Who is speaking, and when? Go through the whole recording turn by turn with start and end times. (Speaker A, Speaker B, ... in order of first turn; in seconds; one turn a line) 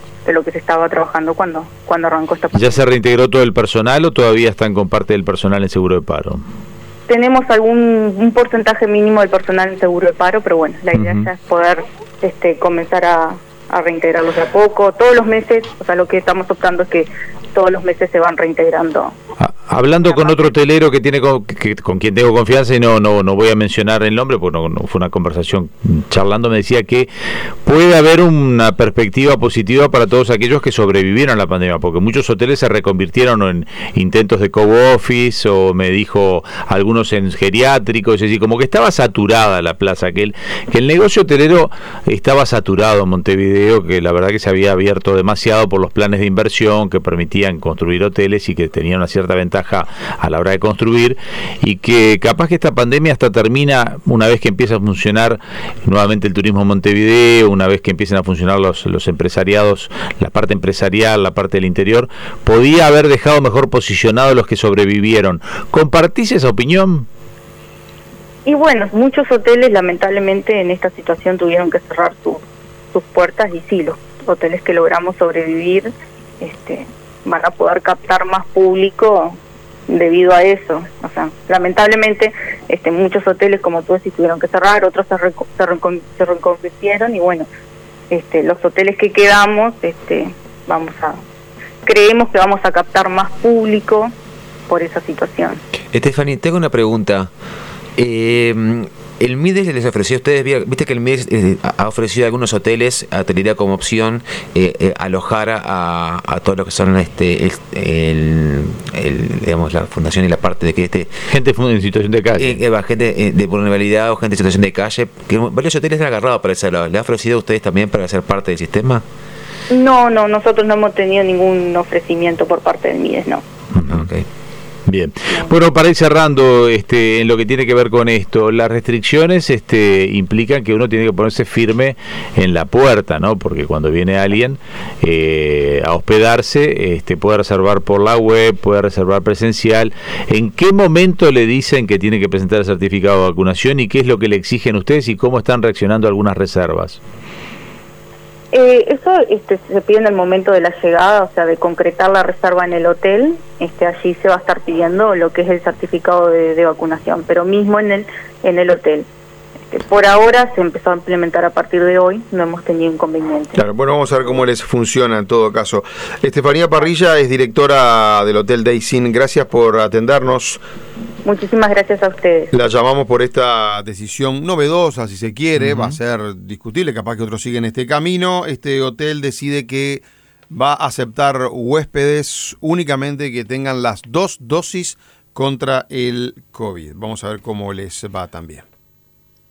Speaker A: 0.2-2.8
Speaker B: 2.5-6.4
Speaker A: 7.1-19.1
Speaker B: 10.9-11.3
Speaker B: 19.4-27.1
Speaker A: 20.1-20.5
Speaker B: 27.6-67.0
Speaker A: 68.4-79.4
Speaker A: 79.9-87.5
Speaker A: 88.1-91.2
Speaker A: 91.8-94.1
Speaker A: 94.7-95.6
Speaker C: 95.9-97.3
Speaker C: 98.0-111.1
Speaker B: 111.3-112.6
Speaker C: 112.4-119.0
Speaker A: 119.7-123.4
Speaker B: 123.7-124.0
Speaker C: 123.8-124.2
Speaker B: 124.9-147.0
Speaker A: 148.5-159.1
Speaker A: 159.7-163.6
Speaker D: 163.5-170.6
Speaker A: 171.2-172.5
Speaker D: 172.5-188.6
Speaker B: 175.6-176.0